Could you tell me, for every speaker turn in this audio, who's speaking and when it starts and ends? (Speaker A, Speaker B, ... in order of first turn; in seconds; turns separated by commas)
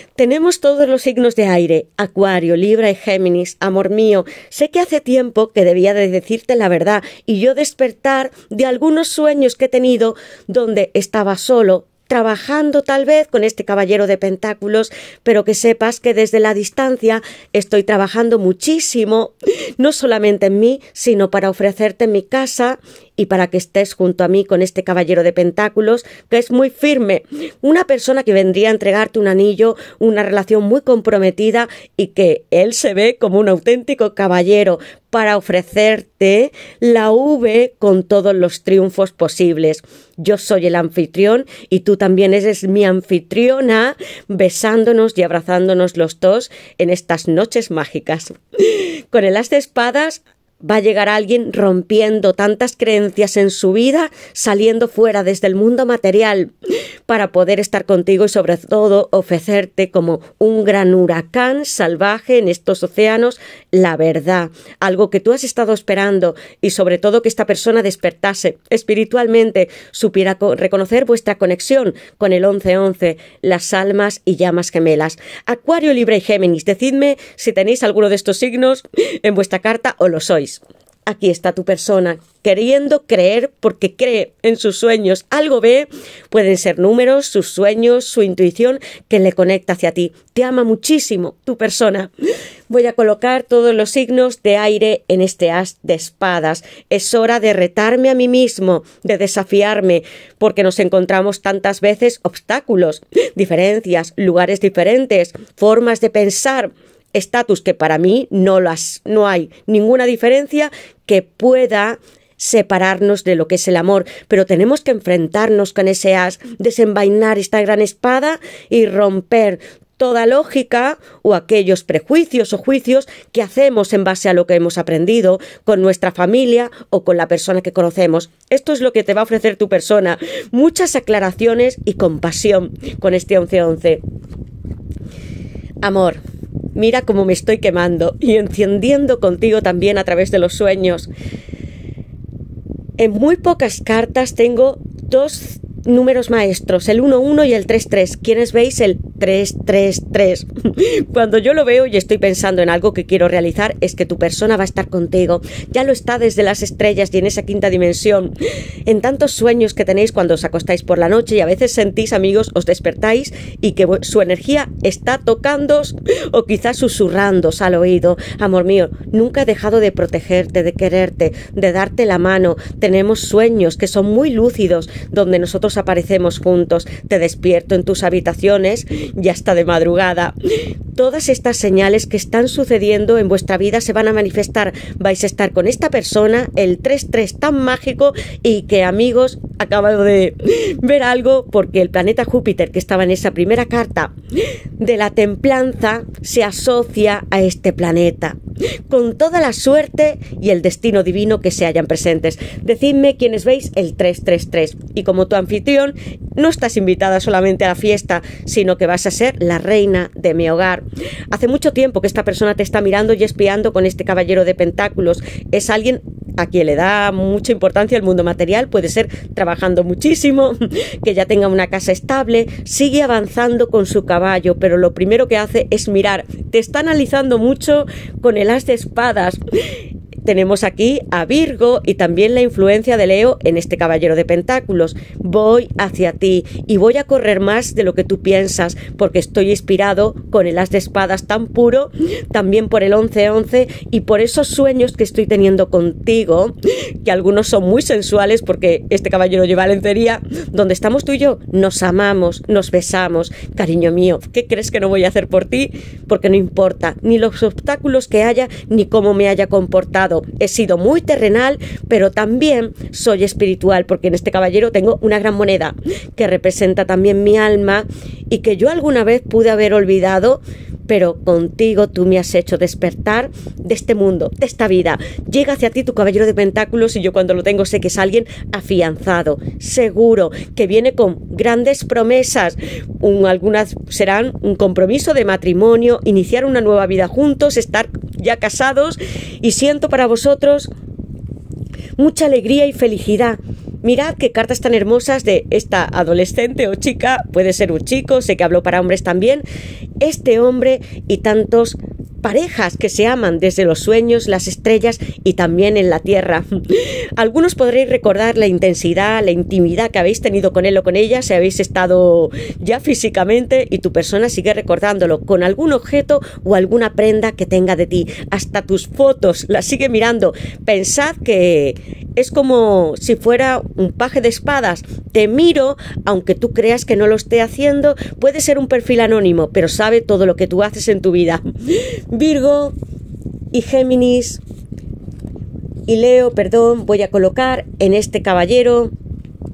Speaker A: 0.2-56.5, Speaker A: 57.1-92.1, Speaker A: 92.7-134.0, Speaker A: 135.8-136.2, Speaker A: 136.7-141.1, Speaker A: 143.0-158.3, Speaker A: 158.8-180.3, Speaker A: 180.9-194.1, Speaker A: 194.8-198.4, Speaker A: 198.9-229.4, Speaker A: 230.2-290.7, Speaker A: 292.0-299.4, Speaker A: 300.0-306.5, Speaker A: 307.2-331.4, Speaker A: 332.1-332.7, Speaker A: 333.5-334.4, Speaker A: 335.9-338.9